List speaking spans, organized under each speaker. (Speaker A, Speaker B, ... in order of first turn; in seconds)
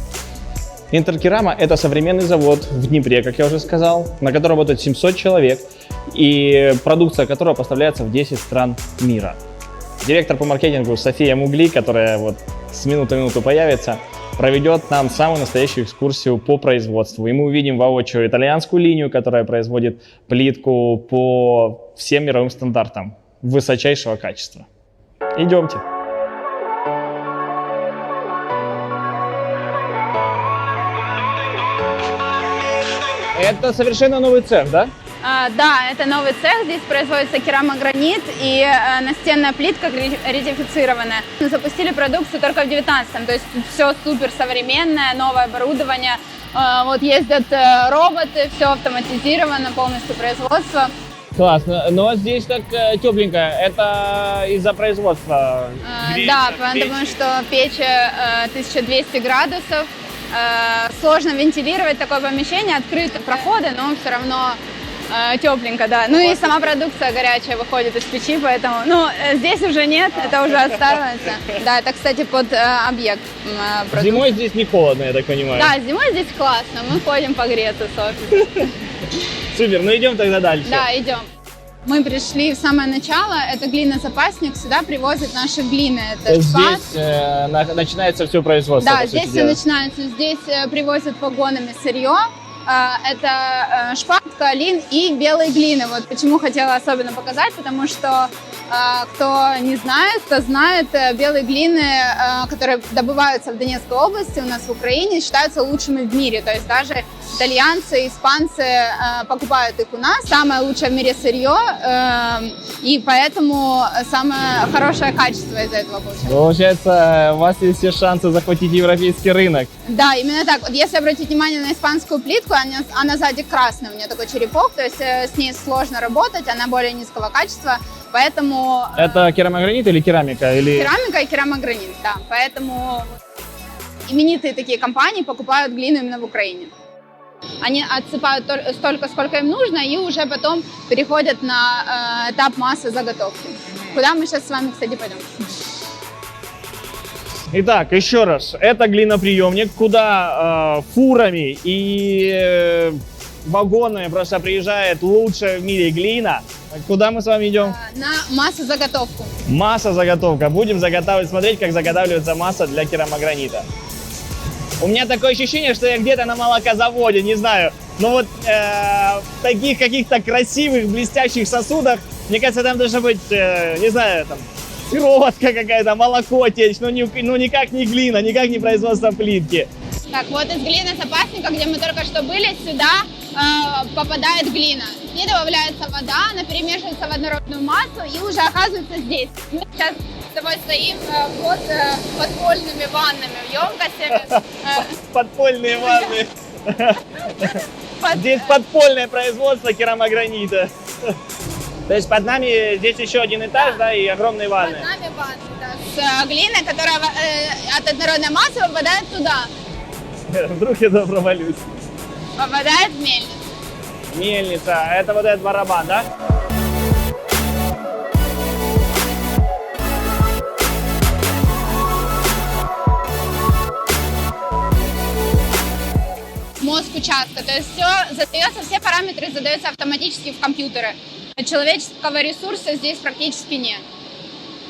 Speaker A: 0.9-9.4, 10.0-24.7, 25.3-25.8, 33.3-34.9, 51.4-57.2, 66.1-66.7, 70.2-70.8, 73.9-75.7, 79.5-80.8, 86.3-89.6, 116.2-119.7, 129.0-130.9, 147.5-157.7, 159.4-163.7, 164.8-179.7, 194.9-197.6, 198.1-201.1, 201.9-204.9, 210.3-211.7, 214.1-216.1
Speaker B: 35.2-50.9, 55.8-64.6, 65.1-74.4, 75.5-78.7, 80.6-81.2, 81.8-86.8, 88.8-116.4, 119.9-129.2, 130.7-133.1, 134.1-136.7, 137.6-145.3, 157.6-159.3, 180.1-194.9, 195.7-196.2, 197.2-198.6, 204.6-209.5, 212.4-213.4, 226.6-233.8